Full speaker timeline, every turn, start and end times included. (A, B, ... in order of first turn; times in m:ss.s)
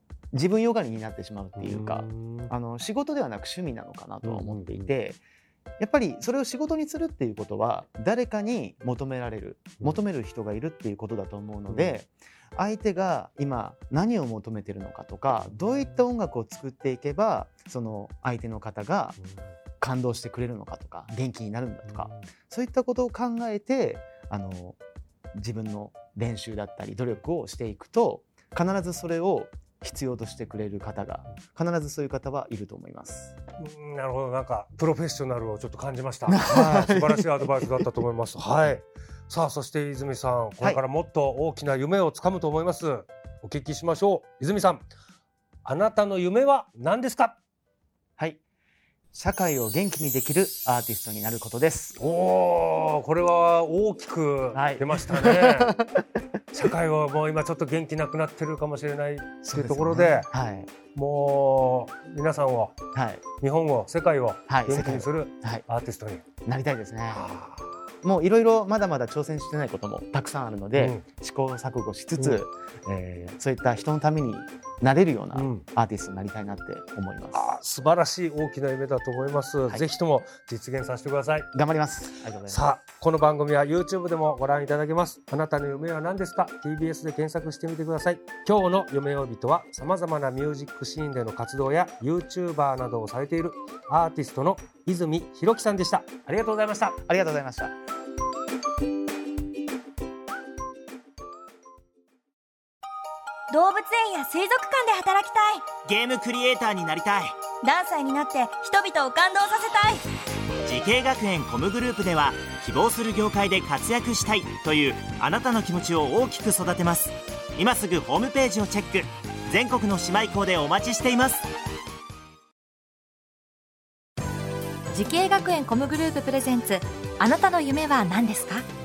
0:00.3-0:05.2 A
0:01.6-0:02.5 B
0:04.2-0:04.9 B
0:05.8-0:19.2 A
0:11.7-0:12.0 B
0:15.4-0:16.0 B
0:19.8-0:24.8 A
0:21.9-0:22.3 B
0:25.3-0:33.4 A
0:33.6-0:44.8 B
0:36.3-0:37.9 A
0:45.6-0:47.4 B
0:49.1-0:52.0 A
0:52.0-0:55.8 B
0:54.5-0:56.1 A
0:56.5-1:00.3 B
0:59.4-1:00.7 A
1:00.9-1:02.8 B
1:02.9-1:03.2 A
1:03.4-1:06.2 B
1:04.5-1:05.6 A
1:06.4-1:07.2 A
1:07.1-1:07.7 B
1:08.0-1:17.5 A
1:10.8-1:11.0 B
1:15.3-1:15.6 B
1:17.3-1:21.5 B
1:21.5-1:22.7 A
1:22.5-1:37.0 B
1:37.0-1:37.7 A
1:43.5-1:45.8 C
1:45.9-1:47.4 D
1:47.6-1:50.0 C
1:50.6-2:01.5 D
2:04.9-2:08.7 E